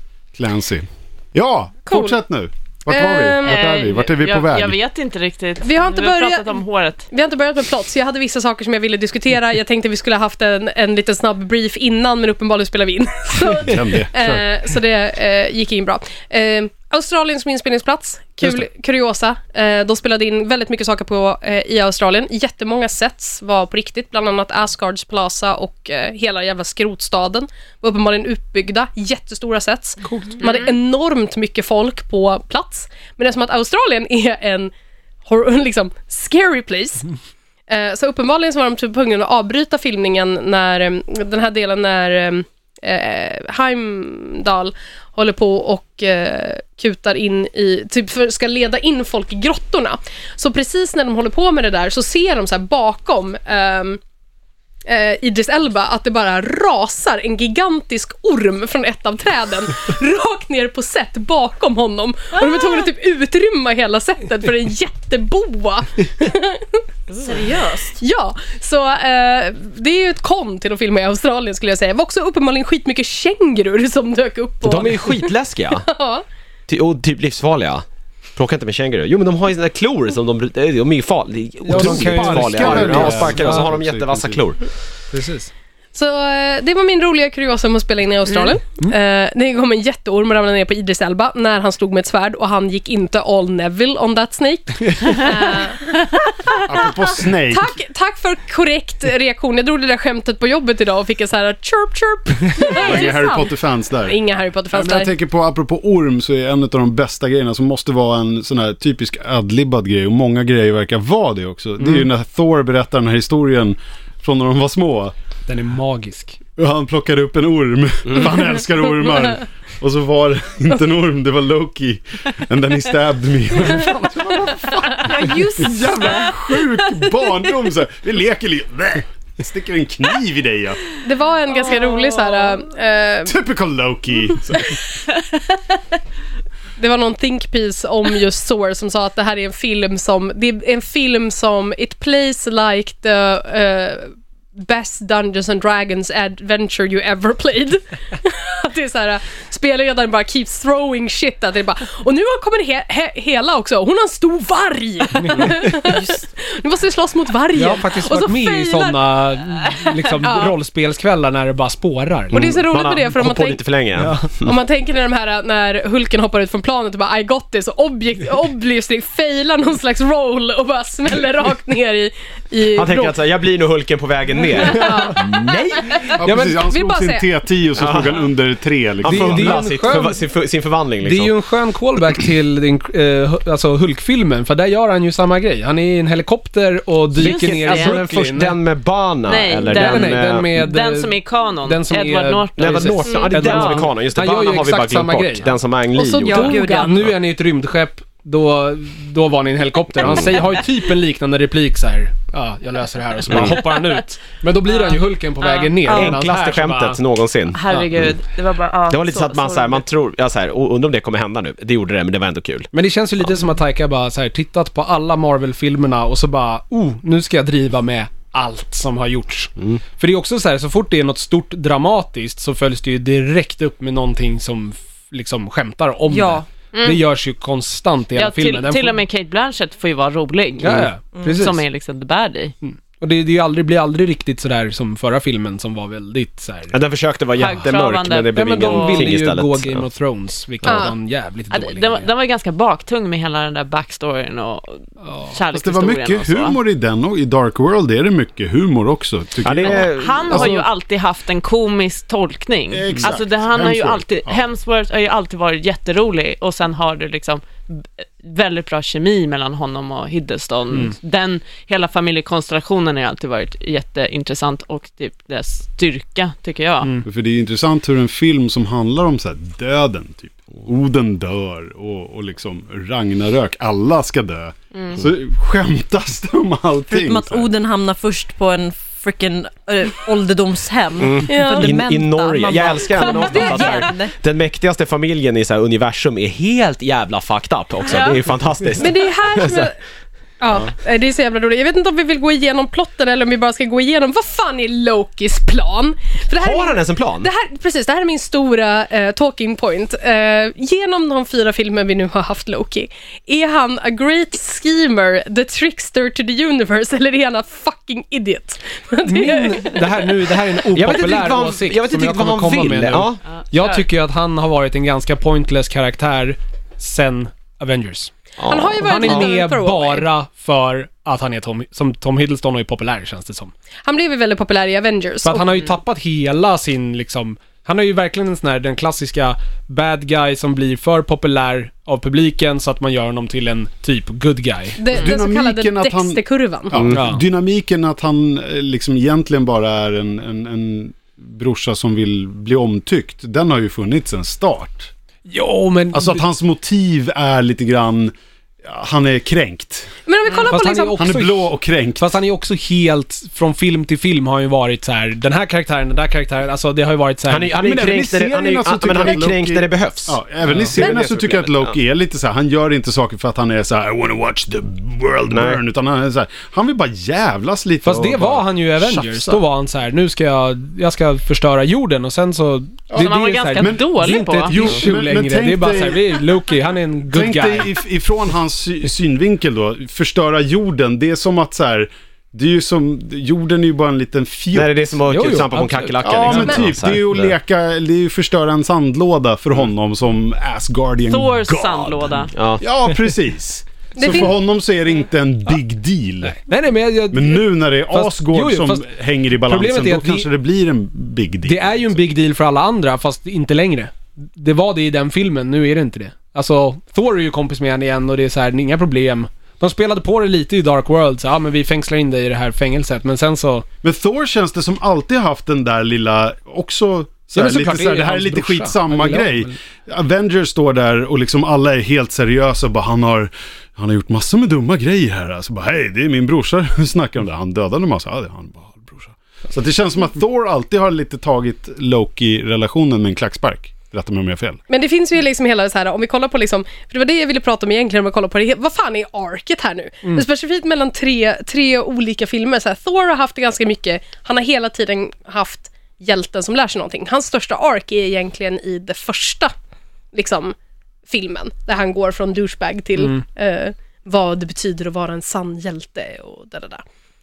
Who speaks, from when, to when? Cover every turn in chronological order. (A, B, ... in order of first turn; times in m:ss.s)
0:00.4-0:04.8 A
0:01.9-0:02.2 B
0:02.9-0:03.6 B
0:03.4-0:07.1 C
0:05.6-0:34.7 B
0:13.5-0:14.5 A
0:30.0-0:30.4 D
0:30.4-0:30.7 C
0:35.3-0:37.0 B
0:37.7-0:54.0 B
0:54.9-1:06.8 B
1:07.1-1:08.0 E
1:08.0-1:15.3 B
1:14.6-1:15.9 F
1:15.8-1:16.2 B
1:16.7-1:17.8 F
1:18.4-1:24.6 F
1:21.6-1:23.7 D
1:21.7-1:24.4 A
1:25.1-1:25.5 D
1:26.0-1:43.5 B
1:36.6-1:37.8 A
1:42.7-1:44.2 A
1:42.8-1:43.2 E
1:44.0-1:45.1 B
1:44.7-1:55.1 A
1:55.5-1:56.4 D
1:56.6-2:10.8 A
2:05.0-2:06.6 B
2:11.0-2:13.4 B
2:13.3-2:14.8 A
2:16.8-2:39.0 B
2:35.2-2:36.0 D
2:37.5-2:42.6 D
2:40.2-2:40.6 B
2:42.3-2:43.6 B
2:42.3-2:44.5 F
2:44.0-2:44.3 D
2:44.4-2:53.2 B
2:52.8-2:55.5 F
2:54.7-2:57.3 B
2:54.7-2:56.6 D
2:56.2-2:59.7 A
2:57.8-2:58.3 F
2:59.0-3:01.4 F
2:59.1-3:00.2 D
3:01.0-3:08.6 D
3:07.2-3:08.0 C
3:07.2-3:10.5 F
3:09.3-3:13.8 C
3:09.6-3:15.5 D
3:12.6-3:17.1 F
3:13.0-3:13.3 B
3:16.0-3:17.0 B
3:16.2-3:17.0 E
3:16.6-3:27.0 D
3:20.0-3:20.3 F
3:23.3-3:23.6 F
3:24.7-3:25.8 C
3:25.9-3:26.2 E
3:25.9-3:27.6 F
3:27.5-3:29.8 C
3:27.7-3:27.9 D
3:28.9-3:32.7 F
3:32.7-3:49.0 D
3:46.1-3:46.4 E
3:46.7-3:47.0 C
3:48.2-3:52.6 C
3:50.6-3:51.6 D
3:52.6-3:56.7 D
3:56.7-3:59.8 F
3:57.4-3:59.1 C
3:58.3-4:02.1 D
4:00.6-4:00.9 B
4:01.5-4:06.6 C
4:05.0-4:05.4 D
4:05.5-4:10.6 A
4:09.4-4:10.5 F
4:09.6-4:27.0 C
4:12.7-4:14.4 A
4:27.0-4:37.4 A
4:34.7-4:35.0 C
4:36.9-4:44.1 E
4:41.0-4:49.7 F
4:41.3-4:41.8 B
4:43.1-4:43.9 B
4:48.8-4:49.8 B
4:50.4-5:10.3 B
4:56.4-4:57.3 F
5:09.0-5:18.1 D
5:10.7-5:13.2 F
5:13.4-5:13.8 C
5:18.4-5:19.3 F
5:18.5-5:20.1 B
5:18.8-5:23.5 D
5:23.9-5:25.6 B
5:25.2-5:34.9 D
5:34.8-5:36.8 B
5:34.9-5:44.9 A
5:36.8-5:37.0 F
5:36.9-5:37.2 D
5:45.3-5:46.2 D
5:45.9-5:49.9 A
5:50.1-5:51.0 B
5:50.4-5:57.5 D
5:51.0-5:52.1 A
5:57.3-6:00.2 F
5:57.5-6:09.4 A
6:00.5-6:00.8 D
6:00.7-6:01.7 F
6:05.3-6:05.6 F
6:07.8-6:17.8 D
6:12.9-6:14.7 C
6:12.9-6:16.3 A
6:17.1-6:24.8 A
6:24.5-6:27.3 F
6:25.1-6:26.6 D
6:26.0-6:36.4 A
6:31.1-6:32.3 C
6:32.3-6:32.6 F
6:34.0-6:34.3 B
6:36.2-6:38.9 D
6:37.1-6:42.0 A
6:39.4-6:40.3 D
6:41.5-6:53.7 D
6:53.8-7:14.6 A
6:57.3-6:59.6 D
7:14.7-7:29.5 B
7:30.1-7:30.6 B
7:31.1-7:36.8 B
7:33.0-7:33.2 D